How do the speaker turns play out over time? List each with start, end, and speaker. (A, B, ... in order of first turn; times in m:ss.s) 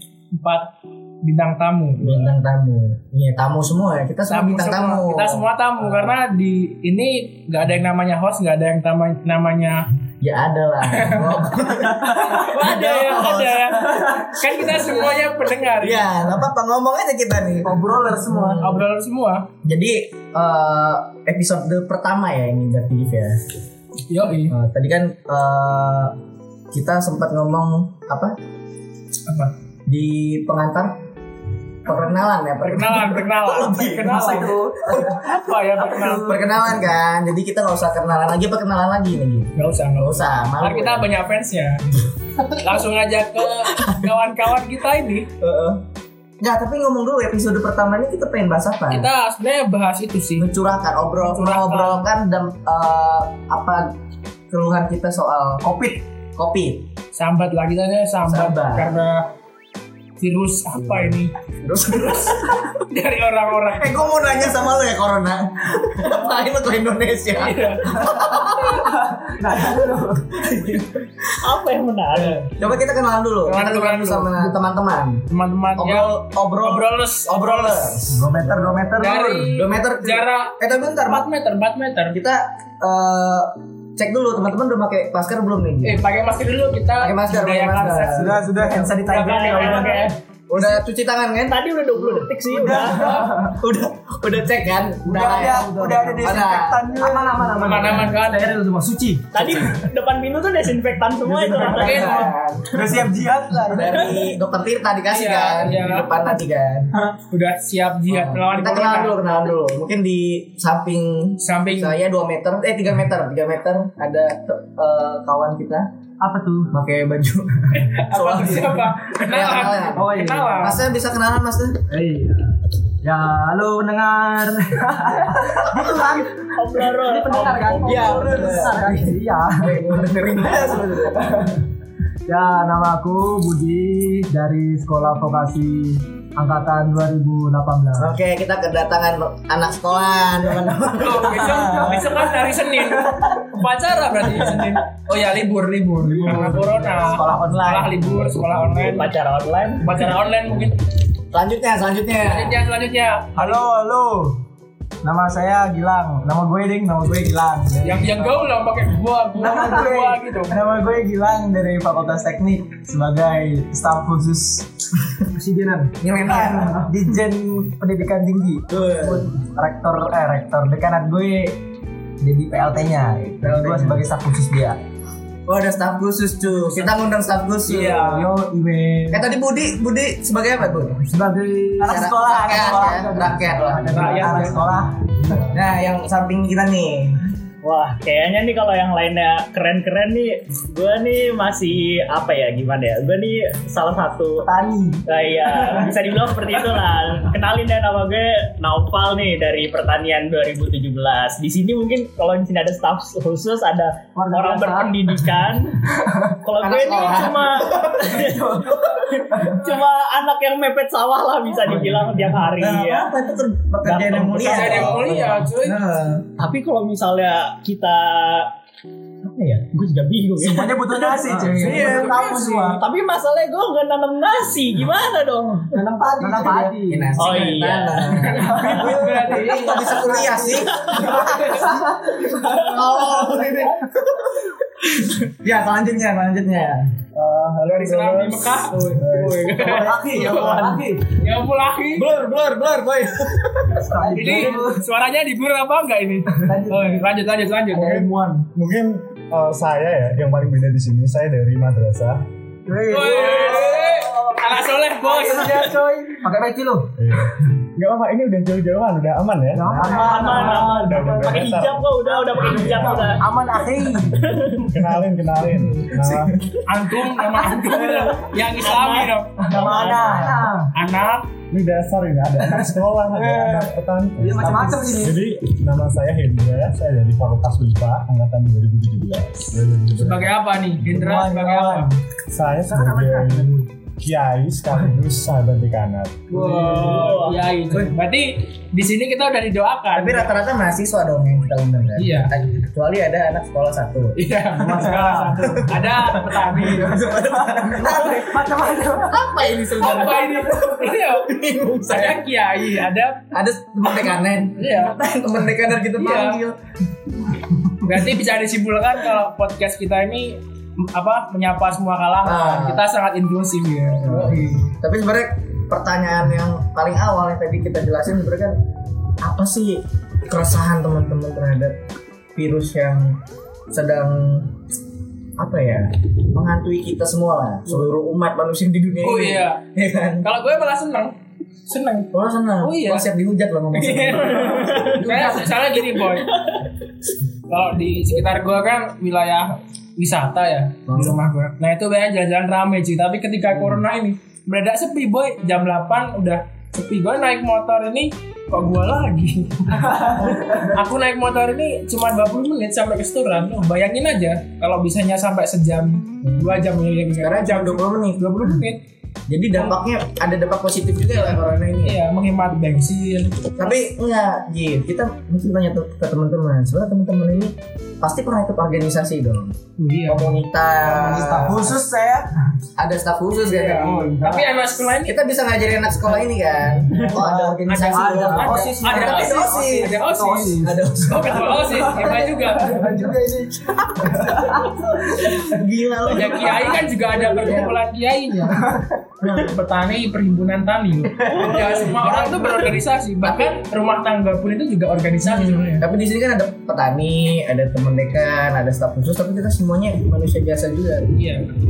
0:00.3-0:00.7 A
0:01.2-0:02.3 A
0:02.0-0:06.1 B
0:04.3-0:09.9 A
0:10.2-0:15.2 B
0:10.9-0:11.4 A
0:12.1-0:16.2 A
0:14.2-0:14.7 C
0:15.8-0:18.8 B
0:17.6-0:18.7 C
0:18.6-0:19.5 A
0:19.6-0:23.4 B
0:24.1-0:24.5 A
0:24.5-0:26.1 B
0:26.7-0:28.4 B
0:29.3-0:29.5 A
0:29.9-0:31.0 B
0:31.8-0:41.1 B
0:32.6-0:36.6 A
0:39.6-0:41.9 A
0:42.4-0:45.3 A
0:43.6-0:44.1 B
0:45.4-0:45.8 B
0:46.4-0:49.1 B
0:48.9-0:50.5 A
0:50.4-0:53.9 B
0:51.2-0:52.1 A
0:54.5-0:56.9 B
0:55.6-0:56.0 C
0:57.1-0:59.3 A
0:58.3-0:58.9 B
1:00.2-1:04.0 A
1:00.7-1:02.7 B
1:03.7-1:08.9 B
1:07.3-1:08.7 A
1:08.0-1:10.8 C
1:10.4-1:11.2 B
1:11.4-1:12.6 D
1:12.6-1:15.2 B
1:13.4-1:14.5 A
1:15.3-1:18.0 A
1:15.8-1:21.3 B
1:18.1-1:19.5 C
1:19.0-1:22.2 A
1:22.1-1:26.0 B
1:25.8-1:30.1 A
1:27.0-1:28.4 B
1:28.1-1:30.1 C
1:29.1-1:30.1 D
1:30.5-1:32.8 B
1:31.5-1:33.1 D
1:32.5-1:33.6 C
1:32.9-1:33.3 A
1:33.6-1:37.4 B
1:35.0-1:39.8 C
1:37.4-1:38.6 A
1:39.3-1:42.3 D
1:41.2-1:41.8 C
1:41.4-1:43.1 B
1:41.5-1:42.3 A
1:42.7-1:44.3 C
1:43.7-1:46.9 B
1:45.1-1:46.1 A
1:47.3-1:49.2 A
1:48.1-1:55.9 B
1:51.4-1:52.0 A
1:56.2-1:56.7 C
1:56.7-2:01.8 B
1:57.7-2:00.8 A
1:59.9-2:00.8 C
2:01.9-2:10.0 C
2:06.4-2:09.0 D
2:07.8-2:11.3 B
2:10.5-2:11.6 C
2:12.3-2:18.1 C
2:18.0-2:22.0 B
2:21.0-2:29.1 A
2:21.4-2:23.6 C
2:24.2-2:24.8 C
2:26.0-2:27.9 C
2:26.2-2:28.8 B
2:28.7-2:30.0 D
2:29.8-2:30.8 A
2:31.3-2:32.6 B
2:32.2-2:33.6 A
2:33.3-2:34.4 C
2:35.0-2:38.5 C
2:37.8-2:40.6 A
2:39.4-2:44.7 C
2:45.2-2:51.6 C
2:46.0-2:46.9 B
2:48.7-2:49.3 B
2:52.2-2:54.8 C
2:53.4-2:54.1 B
2:55.4-2:58.3 B
2:56.5-2:56.9 A
2:57.7-2:59.3 C
2:57.7-2:58.3 A
2:59.1-3:01.0 B
3:01.0-3:05.6 C
3:01.8-3:04.9 B
3:03.8-3:04.7 A
3:05.4-3:07.2 B
3:07.6-3:14.5 D
3:14.4-3:15.1 C
3:15.1-3:28.6 D
3:15.6-3:15.9 C
3:24.1-3:25.3 C
3:25.9-3:26.3 C
3:26.6-3:29.0 B
3:28.1-3:29.7 C
3:29.1-3:33.2 D
3:31.7-3:32.5 C
3:32.6-3:36.2 B
3:33.8-3:35.4 D
3:34.4-3:35.8 A
3:36.4-3:38.5 D
3:39.2-3:41.4 D
3:40.4-3:42.8 C
3:41.3-3:42.1 B
3:41.6-3:42.8 A
3:42.7-3:45.8 D
3:45.7-3:47.5 C
3:46.2-3:56.9 B
3:47.2-3:48.2 D
3:48.0-3:50.3 A
3:48.3-3:52.5 C
3:50.7-3:51.0 D
3:51.0-3:51.8 A
3:57.3-3:58.0 C
3:57.6-4:02.1 A
3:59.1-4:01.0 B
3:59.1-4:01.1 C
4:02.0-4:04.6 B
4:03.7-4:04.8 C
4:04.1-4:08.1 A
4:06.4-4:07.1 C
4:07.7-4:08.5 C
4:08.5-4:12.2 E
4:12.6-4:14.4 C
4:12.9-4:15.8 A
4:13.2-4:13.9 B
4:15.0-4:16.9 C
4:17.0-4:19.9 E
4:19.5-4:21.5 C
4:19.6-4:20.4 B
4:19.8-4:24.7 D
4:20.6-4:23.2 E
4:22.1-4:24.5 C
4:24.6-4:26.4 E
4:25.9-4:26.3 B
4:26.6-4:31.2 A
4:27.4-4:28.1 C
4:28.4-4:30.5 D
4:29.4-4:30.7 C
4:31.5-4:40.3 E
4:33.1-4:35.2 C
4:40.0-4:41.9 A
4:40.9-4:42.0 C
4:42.3-4:47.0 E
4:42.7-4:43.6 C
4:46.3-4:50.3 A
4:46.9-4:47.4 D
4:49.9-4:54.2 B
4:52.0-4:52.3 A
4:54.2-4:57.0 A
4:54.6-4:56.1 C
4:55.7-5:02.2 B
4:57.2-4:59.3 C
4:59.5-5:01.3 A
5:01.9-5:03.2 A
5:03.3-5:06.6 B
5:04.6-5:05.0 A
5:05.9-5:06.4 A
5:07.8-5:14.7 A
5:12.2-5:12.8 B
5:14.0-5:18.6 B
5:19.2-5:21.8 B
5:22.3-5:23.2 B
5:23.7-5:24.5 B
5:25.4-5:30.3 B
5:29.0-5:29.6 A
5:30.2-5:31.1 A
5:31.7-5:32.1 A
5:32.1-5:35.5 B
5:32.6-5:33.1 A
5:33.7-5:36.3 A
5:34.5-5:35.1 D
5:36.0-5:36.6 D
5:37.5-5:58.8 A
5:40.9-5:41.2 B
5:49.8-5:50.5 C
5:56.2-5:56.6 B
5:57.2-5:58.3 B
5:59.3-6:02.0 B
6:01.8-6:03.5 A
6:03.6-6:09.5 B
6:09.8-6:10.4 A
6:10.1-6:11.8 B
6:10.8-6:12.3 C
6:12.8-6:14.1 B
6:13.4-6:15.2 A
6:13.7-6:14.5 C
6:14.9-6:20.0 B
6:16.8-6:25.4 C
6:17.2-6:23.0 A
6:20.6-6:21.8 B
6:23.8-6:27.7 B
6:26.1-6:28.6 A
6:28.6-6:28.9 C
6:29.2-6:29.6 B
6:29.3-6:35.8 A
6:31.2-6:32.7 C
6:33.2-6:33.5 B
6:35.2-6:41.1 B
6:41.1-6:41.6 A